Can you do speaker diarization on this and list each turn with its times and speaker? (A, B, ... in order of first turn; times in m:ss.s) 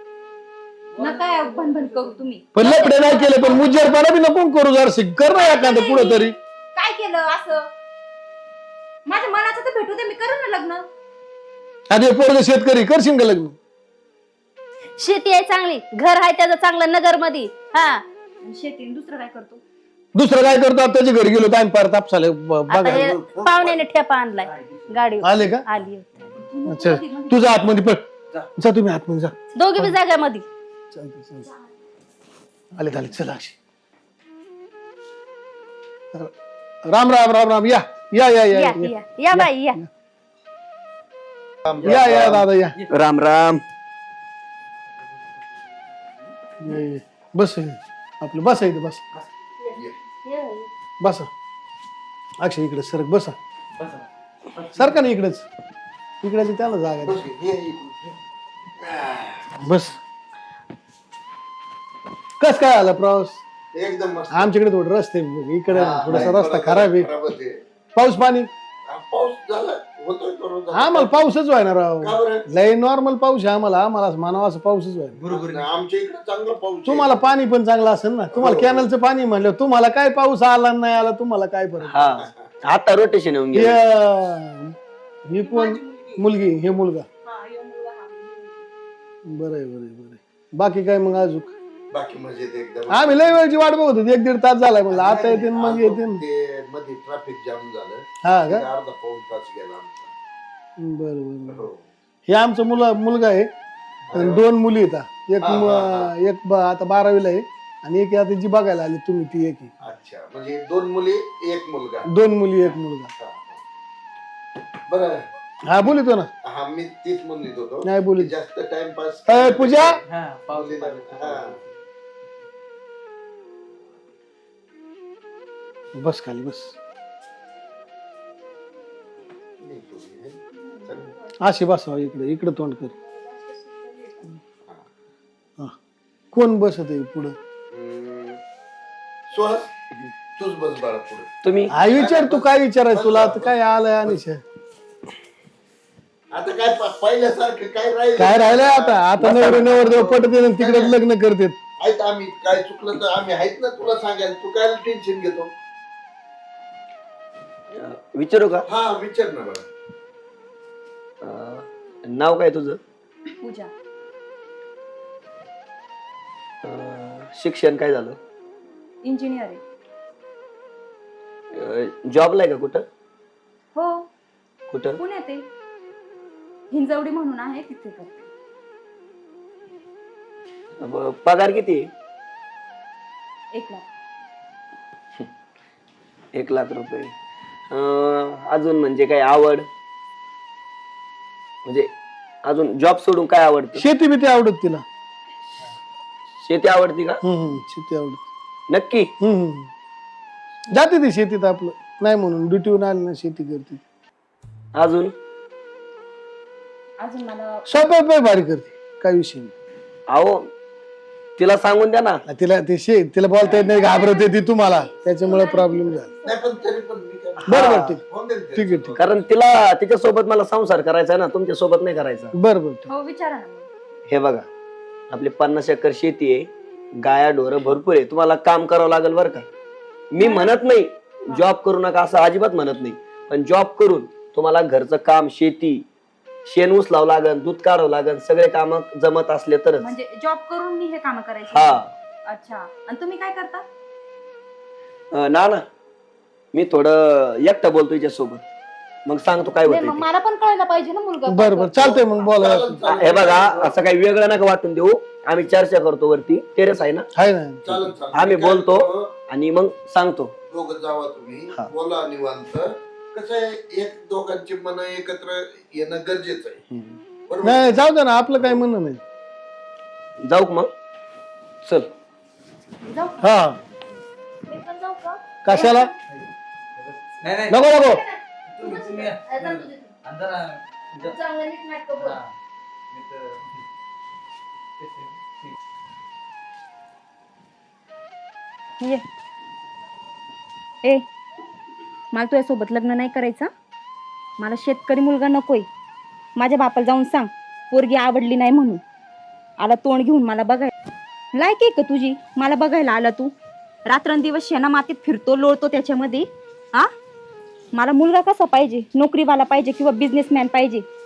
0:01.0-0:02.3 A
0:01.0-0:03.9 B
0:02.5-0:06.4 C
0:05.3-0:07.7 B
0:09.1-0:10.9 B
0:11.9-0:13.6 C
0:15.0-0:18.0 D
0:18.4-0:19.6 B
0:20.2-0:23.1 C
0:22.7-0:26.1 D
0:22.9-0:23.8 E
0:24.4-0:25.0 A
0:25.2-0:25.6 C
0:26.4-0:27.7 B
0:26.7-0:28.0 C
0:28.6-0:30.0 C
0:29.6-0:30.4 D
0:30.9-0:31.5 C
0:32.8-0:33.6 C
0:36.9-0:39.9 C
0:38.5-0:39.8 D
0:41.7-0:43.6 F
0:41.8-0:42.8 C
0:46.6-0:49.0 C
0:50.3-0:50.7 D
0:51.0-0:51.3 C
0:52.4-0:53.4 C
0:53.8-0:55.0 A
0:54.8-0:55.5 C
0:56.2-0:57.2 C
0:57.0-0:58.2 E
0:58.8-0:59.5 E
0:59.6-1:00.0 C
1:02.4-1:03.4 C
1:03.7-1:04.5 E
1:04.3-1:07.1 C
1:05.7-1:07.6 E
1:08.0-1:08.5 C
1:08.9-1:11.2 E
1:10.7-1:15.2 C
1:12.0-1:12.4 E
1:15.2-1:15.8 A
1:15.3-1:17.3 E
1:16.9-1:22.3 C
1:18.3-1:18.9 E
1:21.8-1:23.8 F
1:23.5-1:24.8 C
1:25.3-1:27.1 C
1:25.3-1:26.3 B
1:27.2-1:28.6 B
1:29.3-1:31.6 C
1:31.9-1:33.4 E
1:32.9-1:36.2 C
1:34.9-1:40.1 E
1:38.2-1:38.7 C
1:40.8-1:41.6 C
1:41.5-1:41.8 E
1:42.3-1:43.5 C
1:44.1-1:44.4 E
1:44.1-1:49.7 C
1:45.4-1:46.1 E
1:49.8-1:52.1 E
1:52.1-1:53.1 C
1:53.2-1:53.6 E
1:54.9-1:55.3 E
1:55.7-1:56.3 C
1:56.4-2:00.0 E
1:57.8-1:58.3 C
1:59.3-2:00.0 C
2:00.1-2:01.7 A
2:00.5-2:01.6 E
2:06.0-2:06.8 C
2:09.6-2:11.1 E
2:11.4-2:12.9 C
2:13.0-2:14.3 B
2:16.3-2:17.4 C
2:17.7-2:18.4 E
2:19.3-2:19.7 E
2:20.4-2:21.3 E
2:21.4-2:21.7 F
2:21.7-2:24.4 C
2:21.8-2:24.2 E
2:26.3-2:31.0 E
2:28.2-2:31.6 C
2:29.2-2:29.6 F
2:31.8-2:35.5 E
2:37.7-2:38.7 F
2:38.7-2:39.6 E
2:41.2-2:42.8 F
2:43.4-2:43.7 B
2:46.6-2:48.2 F
2:49.0-2:49.6 B
2:51.5-2:52.8 F
2:53.8-2:54.1 B
2:54.7-2:55.0 F
2:55.0-2:55.5 B
2:56.7-2:58.3 B
3:00.8-3:01.9 F
3:03.5-3:03.8 B
3:06.4-3:07.1 F
3:07.7-3:09.7 F
3:12.5-3:13.8 F
3:13.8-3:14.8 C
3:16.4-3:17.2 F
3:17.2-3:18.2 C
3:18.7-3:19.1 F
3:19.2-3:19.7 C
3:20.7-3:23.8 C
3:24.8-3:25.1 F
3:27.0-3:27.6 B
3:27.7-3:29.5 C
3:30.1-3:30.5 F
3:31.4-3:32.2 F
3:32.3-3:36.1 C
3:33.5-3:36.8 B
3:36.2-3:39.3 E
3:37.5-3:38.0 C
3:37.5-3:37.9 F
3:38.6-3:39.0 C
3:39.0-3:42.4 F
3:42.4-3:42.9 C
3:42.9-3:43.7 B
3:44.1-3:44.5 F
3:45.1-3:49.4 F
3:50.1-3:55.8 F
3:50.2-3:50.6 B
3:56.5-3:59.9 F
3:59.8-4:03.6 B
4:01.5-4:01.9 F
4:05.1-4:05.6 F
4:06.5-4:08.4 F
4:09.1-4:10.1 F
4:09.6-4:12.0 B
4:11.3-4:12.8 C
4:11.8-4:13.8 E
4:12.9-4:17.1 F
4:17.2-4:17.9 C
4:17.6-4:19.1 E
4:18.1-4:20.3 F
4:20.5-4:26.6 E
4:26.7-4:27.0 F
4:27.3-4:27.8 E
4:27.4-4:29.0 C
4:30.2-4:30.7 F
4:31.6-4:31.9 F
4:32.8-4:33.3 B
4:33.2-4:33.6 C
4:34.5-4:35.9 B
4:35.4-4:35.9 C
4:36.1-4:37.6 A
4:37.5-4:38.0 C
4:37.7-4:38.2 B
4:38.5-4:41.2 A
4:39.2-4:39.9 D
4:41.3-4:42.2 B
4:42.0-4:42.3 A
4:42.9-4:43.6 A
4:44.8-4:45.5 A
4:52.1-4:53.5 B
4:54.4-4:55.7 B
4:56.4-4:58.8 B
4:59.6-5:00.7 B
5:01.4-5:03.3 B
5:03.9-5:06.9 B
5:07.7-5:10.8 B